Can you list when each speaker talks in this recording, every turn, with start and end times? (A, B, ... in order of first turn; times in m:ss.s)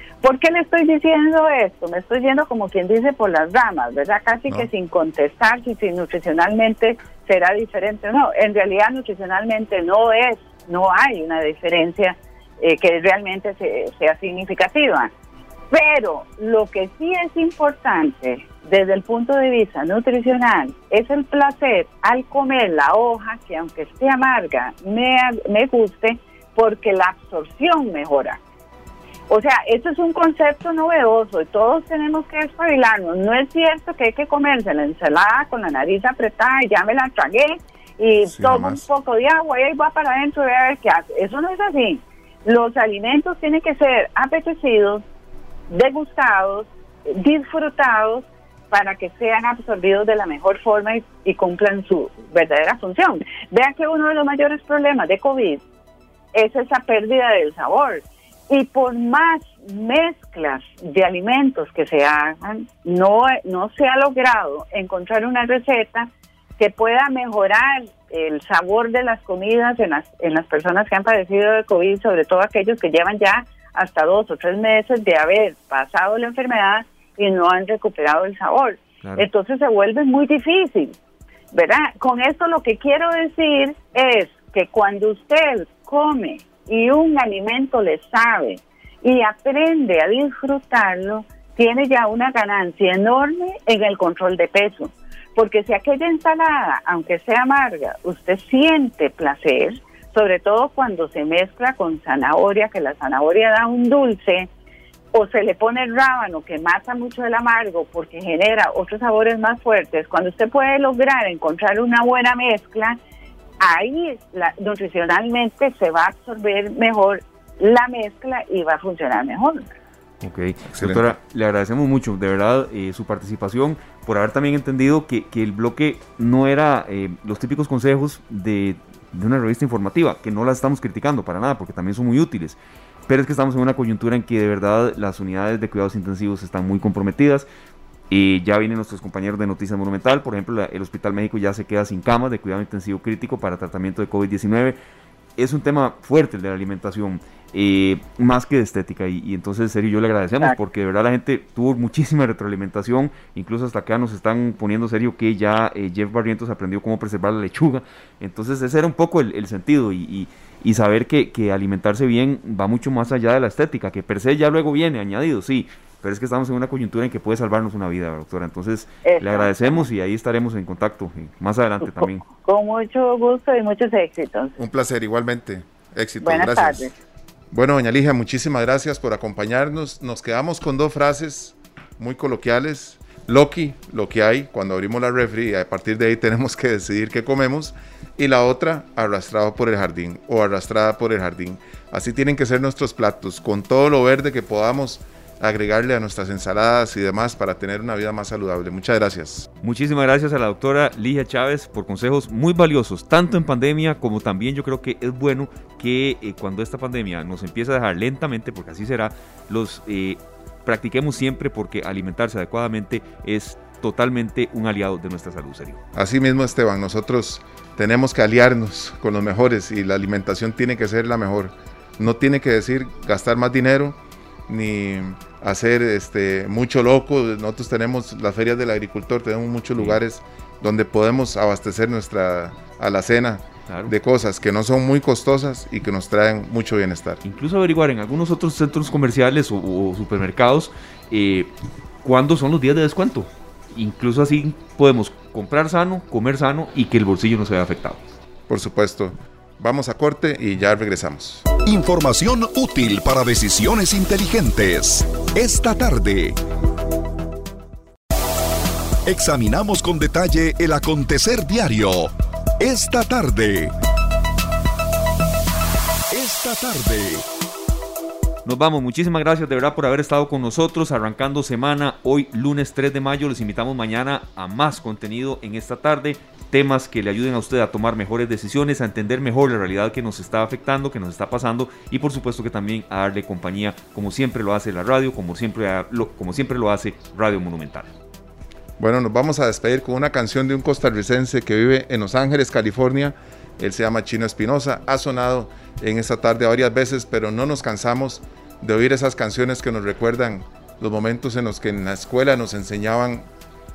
0:00.2-0:15.1 A
0:15.7-0:28.4 A
0:29.3-0:45.0 A
0:38.3-0:38.8 B
0:45.7-0:55.6 A
0:56.3-1:21.0 A
1:21.5-1:44.5 A
1:45.1-1:53.0 A
1:53.6-1:59.7 A
2:00.2-2:17.5 C
2:00.8-2:01.1 B
2:18.1-2:24.8 C
2:25.4-2:52.2 C
2:49.0-2:49.8 A
2:51.8-2:54.5 A
2:54.6-2:56.9 B
2:56.2-2:56.9 A
2:57.5-3:19.5 B
3:19.6-3:35.8 C
3:35.9-3:57.2 B
3:53.7-3:53.9 C
3:57.2-4:01.5 C
4:02.0-4:08.0 C
4:08.5-4:11.5 B
4:11.6-4:16.4 D
4:19.0-4:23.7 D
4:26.1-4:27.2 D
4:28.4-4:47.9 C
4:48.8-5:03.3 B